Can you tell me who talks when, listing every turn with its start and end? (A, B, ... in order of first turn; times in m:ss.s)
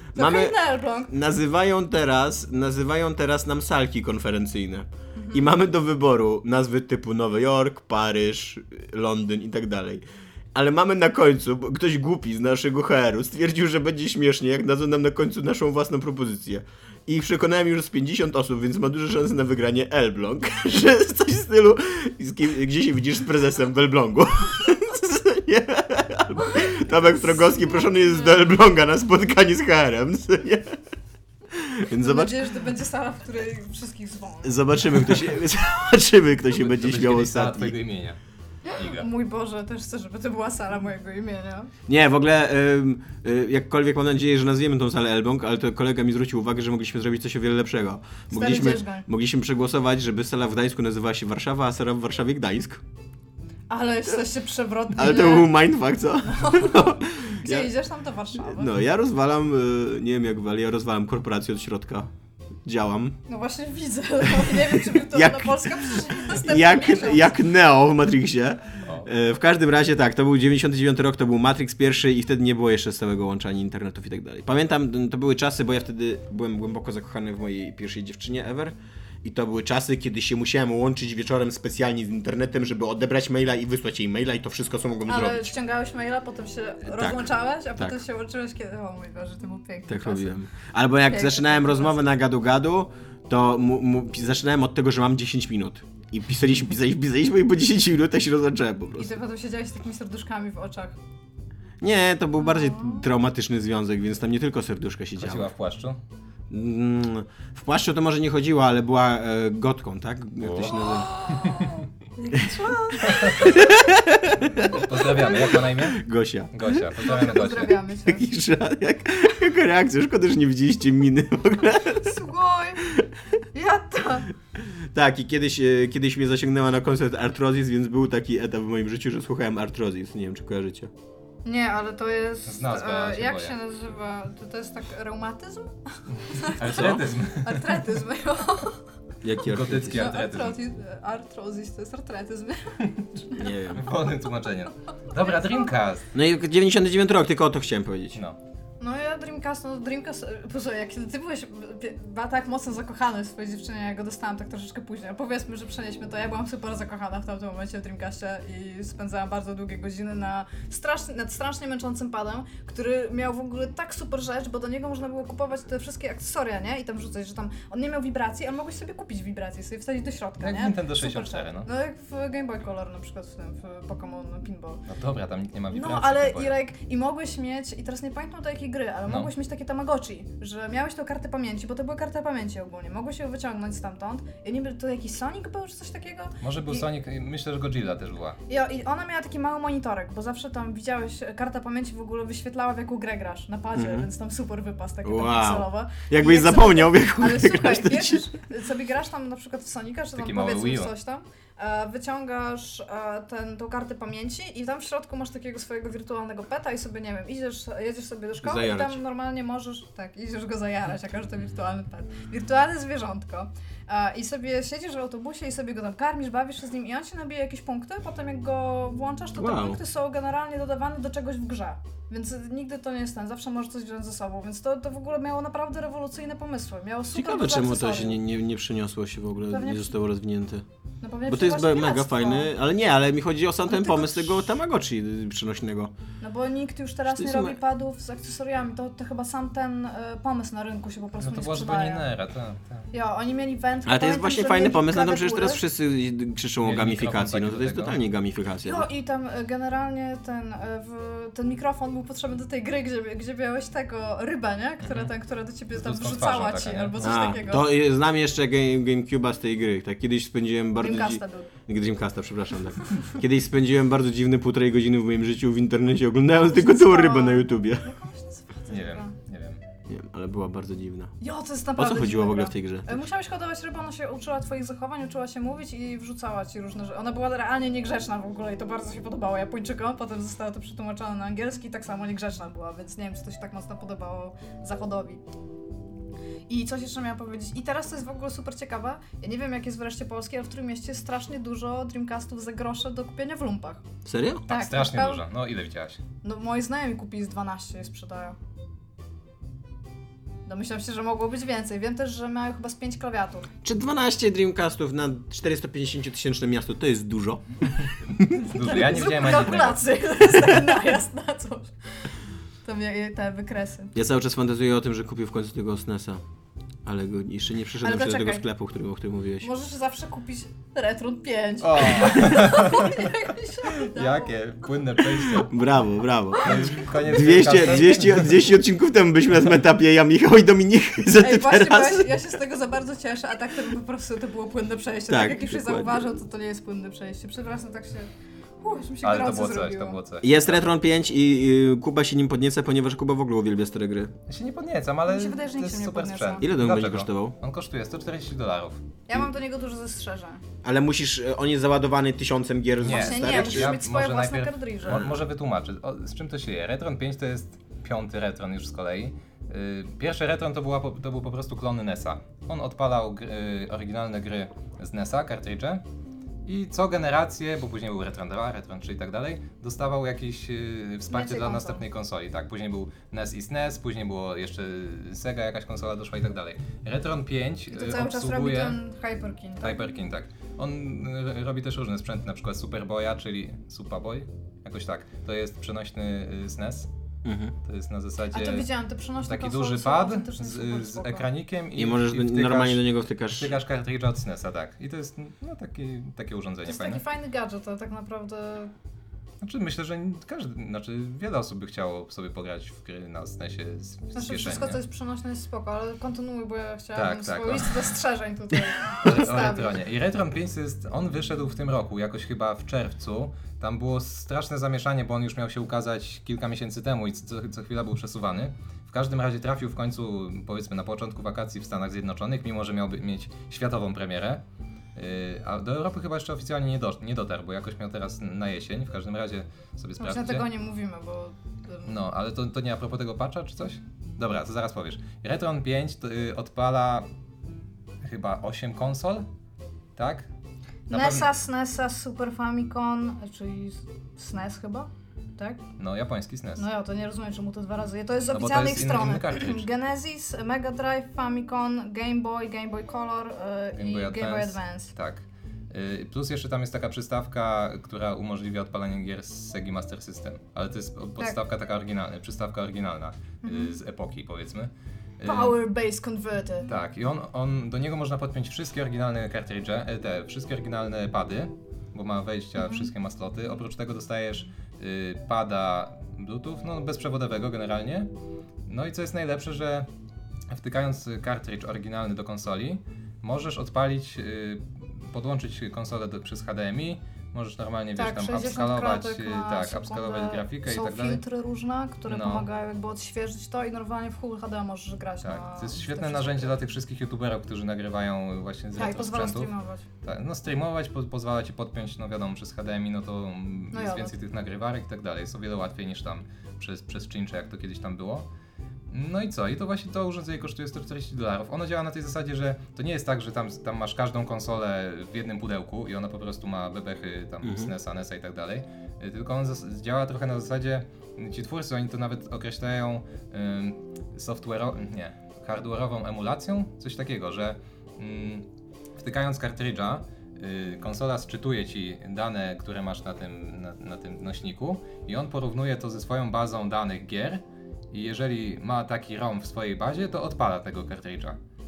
0:00.1-0:30.8 A
0:00.2-0:01.1 B
0:05.2-0:05.5 B
0:27.4-0:28.5 B
0:31.5-0:32.5 A
0:32.0-0:34.7 B
0:34.4-0:37.8 A
0:36.6-0:38.2 C
0:38.7-0:41.7 B
0:38.8-0:39.1 C
0:41.9-0:52.8 A
0:48.3-0:49.1 B
0:53.7-0:58.7 B
0:54.9-0:57.7 A
0:58.4-1:02.1 A
1:02.6-1:03.2 A
1:03.3-1:07.3 B
1:04.4-1:25.5 A
1:08.8-1:09.1 C
1:25.1-1:30.3 B
1:26.9-1:28.0 A
1:29.9-1:39.1 A
1:31.1-1:32.0 B
1:39.0-1:41.0 B
1:41.8-1:45.5 A
1:42.4-1:43.1 B
1:45.2-1:46.0 C
1:46.5-1:51.1 A
1:50.4-1:51.8 C
1:50.9-1:53.8 B
1:53.1-1:53.6 C
1:53.4-1:57.0 A
1:54.5-1:57.8 C
1:57.0-1:58.3 B
1:58.0-2:02.2 A
2:01.9-2:02.8 B
2:03.5-2:04.3 B
2:04.6-2:10.9 A
2:11.4-2:18.8 B
2:12.5-2:13.6 C
2:16.4-2:17.8 C
2:19.2-2:20.1 A
2:19.4-2:20.6 C
2:19.9-2:23.5 B
2:23.4-2:23.9 A
2:23.7-2:26.1 C
2:26.1-2:28.2 A
2:28.8-2:54.8 B
2:50.4-2:51.7 C
2:54.9-2:56.6 C
2:55.7-3:06.8 B
2:59.1-2:59.3 C
3:06.4-3:08.4 C
3:08.5-3:48.2 B
3:13.7-3:14.1 A
3:15.0-3:18.3 A
3:20.2-3:20.9 C
3:28.4-3:29.0 A
3:39.4-3:39.8 A
3:47.1-3:50.6 A
3:49.5-3:49.9 B
3:51.0-3:52.5 B
3:51.3-3:55.9 A
3:53.7-3:54.5 B
3:56.2-4:02.0 B
3:57.1-3:57.6 A
4:01.2-4:02.9 C
4:02.9-4:05.6 B
4:03.9-4:08.9 A
4:06.6-4:08.0 C
4:08.6-4:17.7 B
4:14.8-4:15.1 C
4:15.7-4:17.1 C
4:17.0-4:27.9 A
4:20.8-4:21.5 B
4:26.4-4:29.1 B
4:28.7-4:29.6 C
4:29.9-4:31.1 A
4:31.2-4:45.2 B
4:31.8-4:33.0 A
4:46.5-4:53.8 B
4:54.0-4:54.4 A
4:54.5-4:55.2 B
4:54.5-4:56.0 C
4:56.2-4:58.4 B
5:00.5-5:03.5 B
5:03.6-5:07.4 A
5:08.4-5:09.9 C
5:08.4-5:11.7 B
5:12.6-5:13.9 B
5:14.0-5:16.2 A
5:16.8-5:19.5 A
5:17.8-5:18.4 B
5:19.4-5:24.3 B
5:21.6-5:25.6 C
5:25.4-5:32.3 A
5:26.4-5:28.6 C
5:31.2-5:38.1 B
5:35.1-5:36.1 A
5:38.6-5:40.0 B
5:39.0-5:40.7 C
5:40.2-5:44.1 A
5:44.3-5:48.8 C
5:45.1-5:46.5 B
5:46.4-5:47.4 A
5:49.1-5:50.4 B
5:50.6-5:53.8 A
5:52.8-6:05.8 C
5:52.9-5:55.1 B
6:06.5-6:18.8 C
6:11.1-6:11.8 B
6:17.7-6:19.8 B
6:19.6-6:26.9 C
6:27.2-6:27.6 A
6:27.6-6:28.7 C
6:28.3-6:31.3 B
6:29.2-6:37.0 C
6:31.8-6:33.6 A
6:36.7-6:38.7 B
6:39.4-6:44.8 C
6:44.2-6:49.7 B
6:47.0-6:47.9 C
6:48.9-7:04.4 C
7:05.0-7:10.5 C
7:10.0-7:12.0 B
7:11.8-7:17.1 C
7:18.0-7:19.2 C
7:20.0-7:20.3 C
7:20.9-7:25.6 B
7:20.9-7:21.3 C
7:25.8-7:26.6 C
7:26.6-7:34.9 B
7:28.3-7:29.7 C
7:33.7-7:45.6 C
7:43.4-7:43.8 B
7:45.2-7:46.7 B
7:46.7-7:58.1 C
7:52.6-7:52.9 B
7:58.7-7:59.9 C
8:00.5-8:11.2 C
8:08.0-8:16.6 B
8:12.1-8:12.5 C
8:15.2-8:19.5 C
8:18.8-8:19.8 B
8:20.0-8:28.3 C
8:23.7-8:24.1 B
8:28.9-9:01.4 C
8:37.4-8:37.7 A